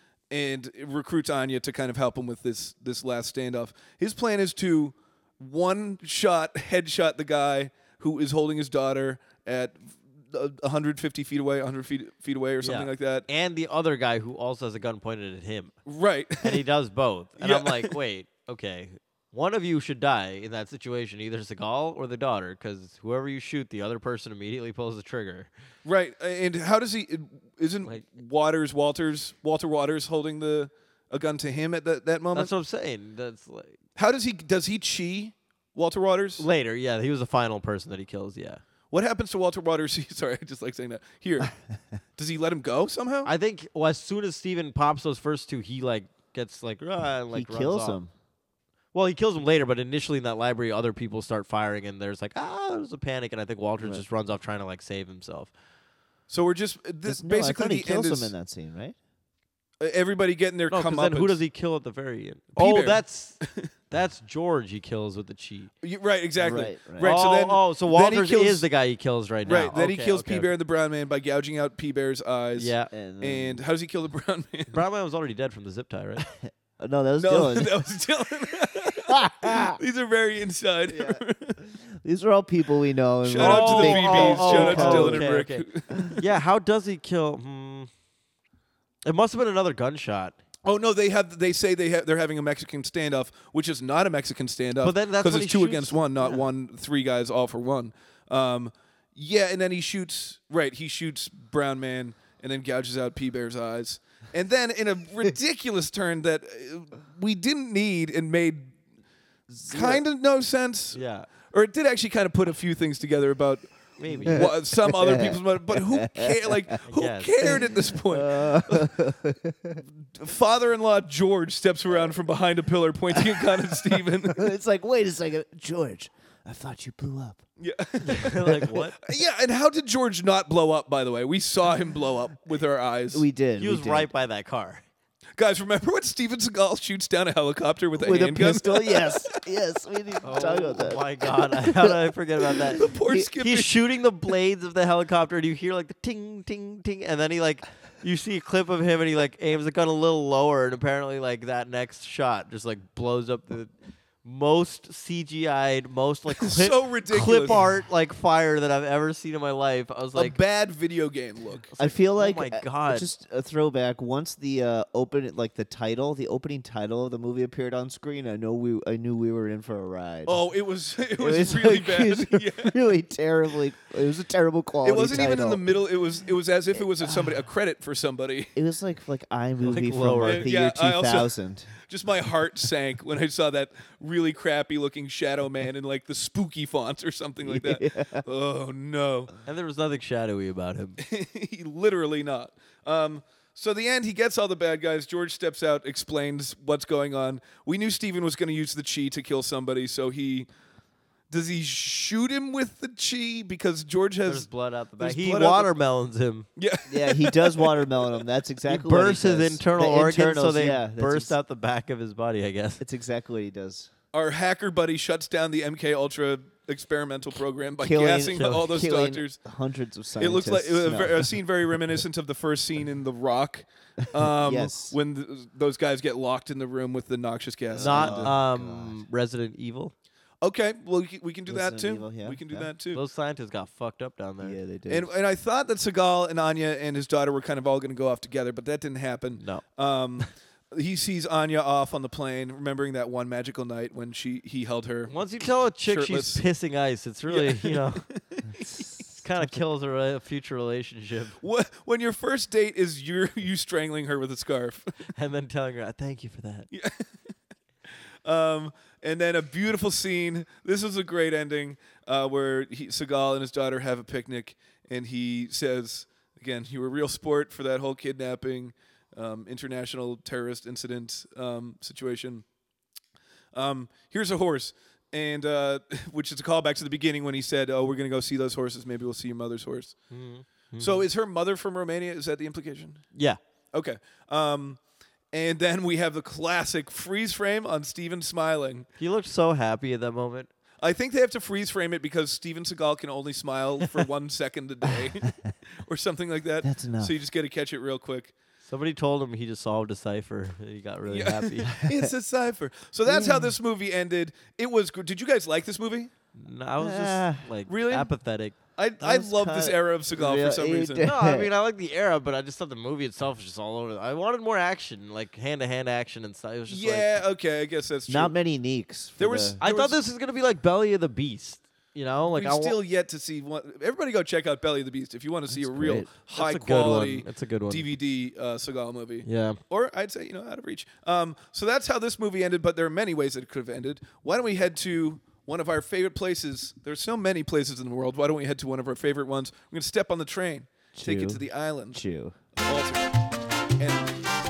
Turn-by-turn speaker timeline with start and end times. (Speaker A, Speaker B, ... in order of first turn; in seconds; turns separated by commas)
Speaker A: 0.3-13.2, Speaker B: 12.6-15.7, Speaker A: 15.8-16.6, Speaker B: 16.4-25.5, Speaker A: 17.4-17.9, Speaker A: 25.8-32.5, Speaker B: 32.3-33.8, Speaker A: 34.0-36.5, Speaker B: 36.4-38.6, Speaker A: 38.9-41.5, Speaker A: 42.2-43.3, Speaker B: 43.2-48.0, Speaker C: 47.3-48.1, Speaker B: 48.9-55.5, Speaker A: 56.3-58.3, Speaker C: 57.1-59.0, Speaker A: 59.8-61.4, Speaker B: 60.7-65.7, Speaker A: 62.5-63.7, Speaker A: 65.8-68.7, Speaker C: 66.4-67.1, Speaker B: 67.0-70.5, Speaker A: 69.4-74.8, Speaker B: 72.6-72.9, Speaker C: 72.9-73.6, Speaker B: 74.7-76.2, Speaker C: 76.5-77.7, Speaker A: 77.2-81.6, Speaker C: 79.1-79.8, Speaker C: 80.9-85.3, Speaker A: 83.2-86.2, Speaker B: 83.4-85.7, Speaker B: 86.2-87.9, Speaker B: 89.0-90.3, Speaker A: 90.6-108.7, Speaker B: 94.8-96.4, Speaker C: 109.5-110.0, Speaker A: 109.7-119.0, Speaker B: 110.9-111.3, Speaker B: 114.0-114.5, Speaker C: 114.8-116.7, Speaker B: 116.8-117.6, Speaker C: 117.4-119.8, Speaker A: 120.1-124.4, Speaker C: 123.1-123.6, Speaker C: 124.2-127.4, Speaker A: 127.6-133.2, Speaker B: 128.0-129.0, Speaker C: 133.1-134.1, Speaker B: 133.6-134.8, Speaker A: 135.4-139.3, Speaker C: 138.0-141.9, Speaker B: 140.2-153.7, Speaker C: 142.7-143.2, Speaker A: 142.8-143.7, Speaker B: 154.2-160.4, Speaker A: 156.4-157.6, Speaker A: 160.1-161.7, Speaker B: 161.7-163.1, Speaker C: 161.8-170.4, Speaker A: 170.2-172.8, Speaker C: 171.2-175.7, Speaker A: 174.8-178.5, Speaker C: 177.0-177.3, Speaker C: 178.6-181.7, Speaker B: 179.6-180.5, Speaker A: 180.2-189.3, Speaker C: 187.4-188.2, Speaker B: 189.4-191.0, Speaker A: 191.0-200.5, Speaker A: 201.3-204.5, Speaker B: 204.2-206.4, Speaker A: 205.0-205.7, Speaker A: 206.6-208.0, Speaker C: 206.9-211.3, Speaker B: 208.7-212.8, Speaker C: 212.8-213.9, Speaker A: 214.1-219.4, Speaker C: 217.8-221.3, Speaker A: 220.2-228.3, Speaker C: 224.2-224.9, Speaker C: 227.7-229.0, Speaker B: 227.8-229.9, Speaker A: 230.4-233.0, Speaker C: 231.5-232.7, Speaker B: 232.9-234.6, Speaker C: 234.4-235.1, Speaker A: 234.9-246.4, Speaker B: 245.1-248.0, Speaker A: 247.3-248.8, Speaker B: 249.2-251.4, Speaker A: 251.4-254.9, Speaker B: 255.1-256.7, Speaker A: 256.7-257.1, Speaker A: 258.2-272.4, Speaker A: 273.5-279.9, Speaker B: 280.1-281.1, Speaker A: 280.8-283.0, Speaker A: 283.7-284.8, Speaker A: 285.3-288.9, Speaker B: 289.0-290.5, Speaker A: 290.8-298.3, Speaker C: 296.6-297.1, Speaker B: 298.6-301.8, Speaker A: 301.1-306.1, Speaker C: 303.1-303.6, Speaker B: 306.3-308.5, Speaker C: 306.8-307.4, Speaker A: 307.7-308.1, Speaker A: 308.7-311.1, Speaker C: 309.0-311.5, Speaker B: 311.0-317.2, Speaker A: 316.7-318.3, Speaker C: 318.1-319.6, Speaker A: 319.2-320.0, Speaker B: 319.6-322.8, Speaker A: 322.3-342.0, Speaker C: 325.5-326.1, Speaker B: 326.3-327.9, Speaker B: 329.2-329.6, Speaker C: 340.9-342.3, Speaker A: 342.6-343.1, Speaker A: 343.8-344.2